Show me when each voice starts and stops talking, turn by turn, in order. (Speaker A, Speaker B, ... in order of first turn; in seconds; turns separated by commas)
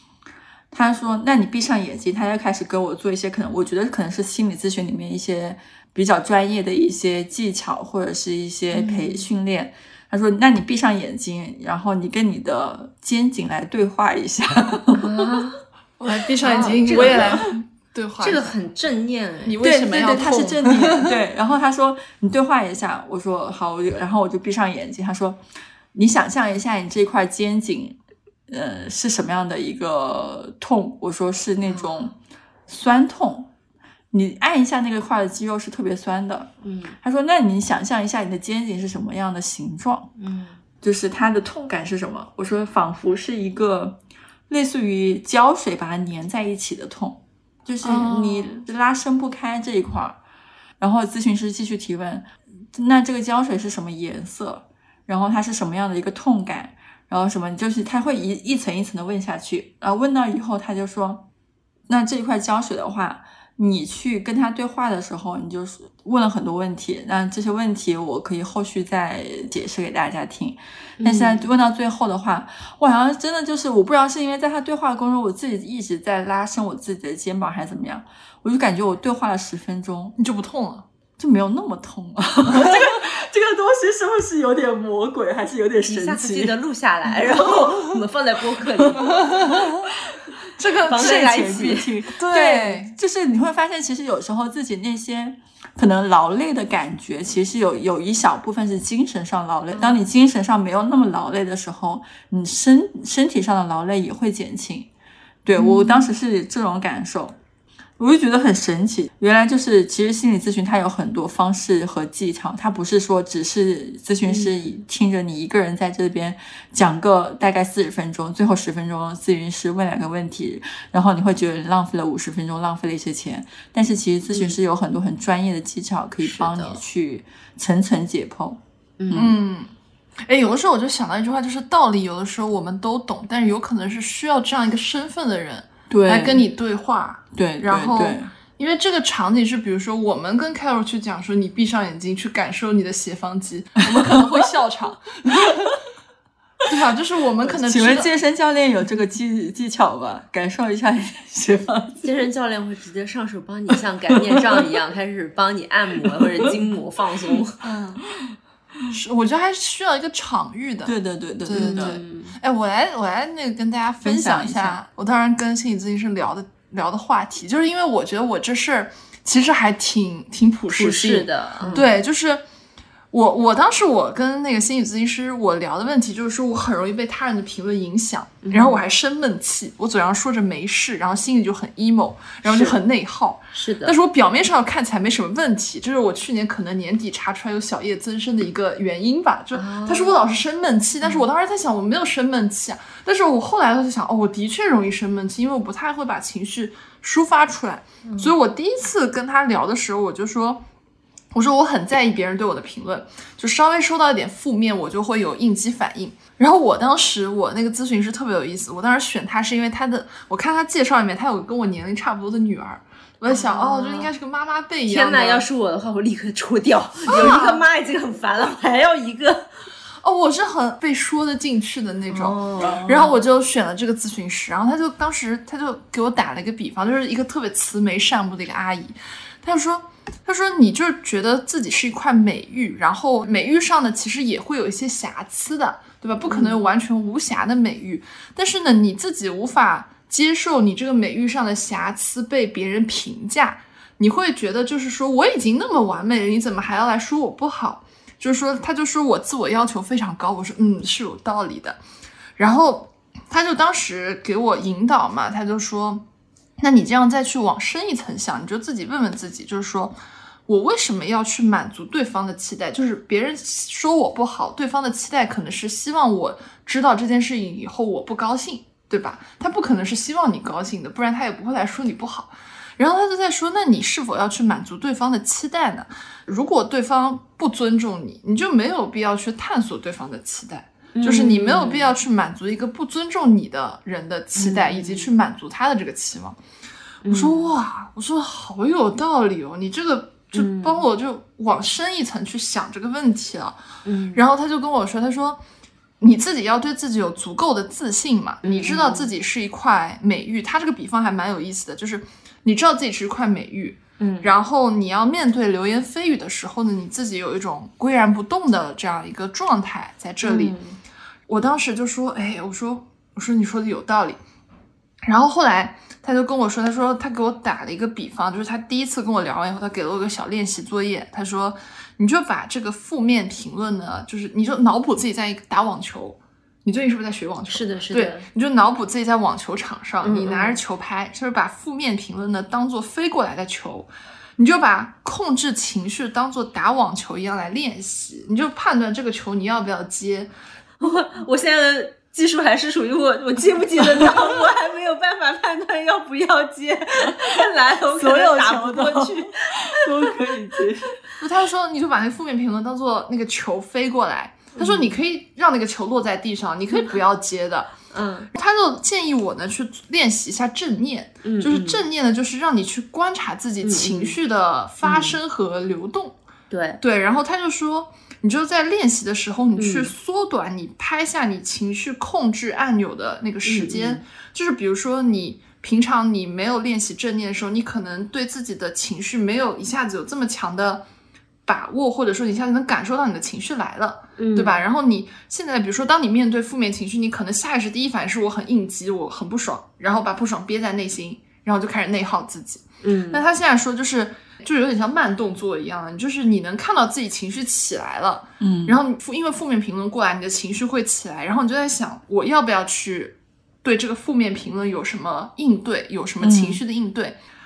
Speaker A: 0.7-15.3, Speaker B: 8.7-9.2, Speaker B: 15.0-15.6, Speaker C: 16.0-18.5, Speaker B: 16.4-17.4, Speaker B: 18.2-19.6, Speaker C: 19.5-21.2, Speaker A: 19.6-25.4, Speaker A: 25.9-28.0, Speaker A: 28.5-32.1, Speaker B: 31.6-32.1, Speaker A: 32.7-33.5, Speaker A: 34.1-40.1, Speaker B: 36.6-37.0, Speaker B: 40.2-40.6, Speaker A: 40.8-50.2, Speaker C: 47.8-48.6, Speaker A: 50.8-61.2, Speaker A: 61.9-80.2, Speaker B: 71.0-71.5, Speaker C: 80.2-80.9, Speaker A: 81.2-86.6, Speaker B: 85.9-89.2, Speaker C: 89.1-89.9, Speaker C: 90.6-91.5, Speaker B: 90.9-91.9, Speaker A: 90.9-104.9, Speaker C: 92.2-92.9, Speaker A: 105.4-107.4, Speaker C: 105.5-106.1, Speaker A: 108.0-129.4, Speaker B: 114.3-114.8, Speaker B: 126.2-126.8, Speaker B: 129.0-129.3, Speaker C: 129.2-129.7, Speaker C: 130.3-145.7, Speaker A: 135.9-136.4, Speaker A: 137.3-138.3, Speaker A: 145.5-145.7, Speaker C: 146.7-148.1, Speaker A: 147.5-152.0, Speaker B: 152.0-157.6, Speaker A: 156.1-156.5, Speaker C: 157.6-158.0, Speaker C: 158.9-160.9, Speaker A: 160.9-162.0, Speaker C: 161.4-172.4, Speaker B: 161.6-162.4, Speaker A: 164.0-164.8, Speaker B: 170.7-171.9, Speaker C: 173.1-200.6, Speaker B: 178.4-178.8, Speaker B: 182.4-182.8, Speaker B: 183.5-183.9, Speaker B: 189.5-190.2, Speaker B: 198.1-198.3, Speaker C: 201.3-215.4, Speaker B: 213.3-214.1, Speaker B: 214.9-219.5, Speaker C: 217.1-217.6, Speaker C: 220.0-251.8, Speaker B: 222.1-223.1, Speaker A: 222.6-223.1, Speaker B: 236.3-236.6, Speaker C: 252.4-256.1, Speaker C: 256.6-259.9, Speaker C: 260.5-286.4, Speaker B: 280.9-281.9, Speaker B: 284.4-285.1, Speaker B: 287.1-287.5, Speaker C: 287.1-293.6, Speaker B: 290.3-290.8, Speaker B: 293.9-294.2, Speaker C: 294.1-295.4, Speaker C: 296.0-310.6, Speaker B: 298.4-299.1, Speaker B: 304.0-304.3, Speaker B: 310.2-310.8, Speaker C: 311.3-314.2, Speaker C: 315.0-340.3, Speaker B: 327.5-328.3, Speaker B: 330.0-330.6, Speaker B: 340.8-349.5, Speaker A: 347.9-351.0, Speaker C: 351.2-357.7, Speaker B: 354.6-354.9, Speaker B: 356.7-357.0, Speaker B: 357.9-358.3, Speaker C: 358.3-366.1, Speaker B: 361.2-361.8, Speaker B: 363.6-364.2, Speaker B: 364.8-365.2, Speaker B: 366.5-366.8, Speaker C: 366.8-380.9, Speaker B: 369.6-369.9, Speaker B: 373.4-374.0, Speaker C: 381.4-407.2, Speaker B: 384.2-384.6, Speaker B: 392.8-393.2, Speaker A: 398.4-398.8, Speaker A: 406.2-406.6